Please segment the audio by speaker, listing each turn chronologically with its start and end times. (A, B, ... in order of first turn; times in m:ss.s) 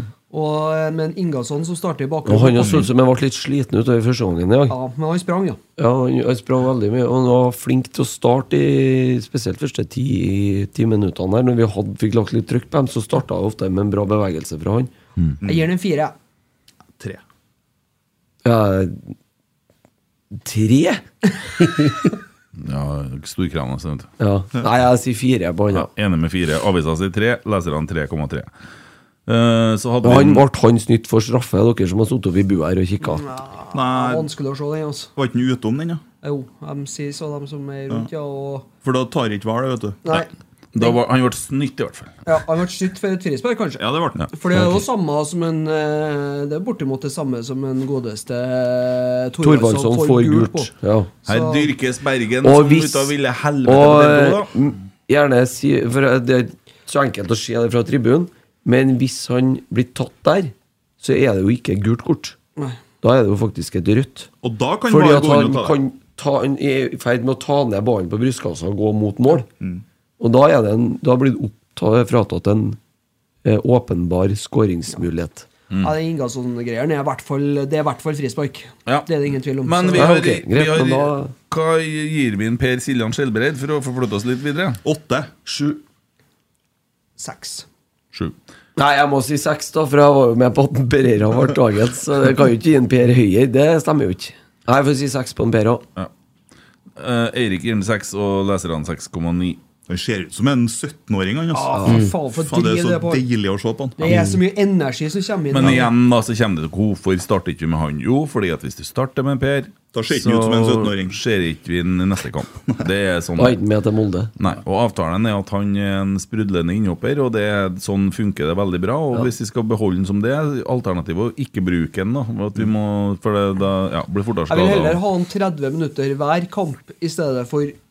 0:00.3-0:02.8 A
0:02.2-0:04.8 B
0:04.7-0:05.6 A
0:05.8-0:14.9 B
0:15.4-0:15.7 C
0:15.4-0:16.1 A
0:18.4-0:19.1 B
0:20.4-0:21.0 B
0:22.6-0:24.1 D
0:24.2-0:25.9 B
0:25.7-0:28.5 D
0:29.3-0:30.4 D
0:30.0-0:33.2 B
0:33.0-0:35.1 A
0:33.7-0:34.3 C
0:35.2-0:36.0 C
0:36.2-0:38.7 A
0:38.8-0:40.2 C
0:40.0-0:41.0 A
0:40.7-0:42.1 D
0:42.3-0:50.7 A
0:43.8-0:44.8 C
0:49.4-0:51.1 B
0:51.2-0:51.7 A
0:51.3-0:54.5 D
0:52.4-0:53.1 B
0:53.6-1:02.4 B
1:03.0-1:04.3 B
1:04.4-1:05.8 C
1:04.9-1:09.5 B
1:10.2-1:12.8 B
1:13.4-1:15.5 B
1:15.8-1:20.2 A
1:19.6-1:24.8 D
1:19.9-1:21.3 B
1:24.8-1:25.3 C
1:25.5-1:25.8 B
1:27.2-1:27.7 A
1:28.8-1:35.8 B
1:37.0-1:39.6 D
1:39.9-1:44.2 C
1:41.5-1:43.2 A
1:41.8-1:42.0 B
1:44.0-1:45.9 A
1:45.5-1:53.6 D
1:49.9-1:51.2 C
1:53.4-1:54.3 B
1:54.4-2:05.0 D
2:04.5-2:07.8 A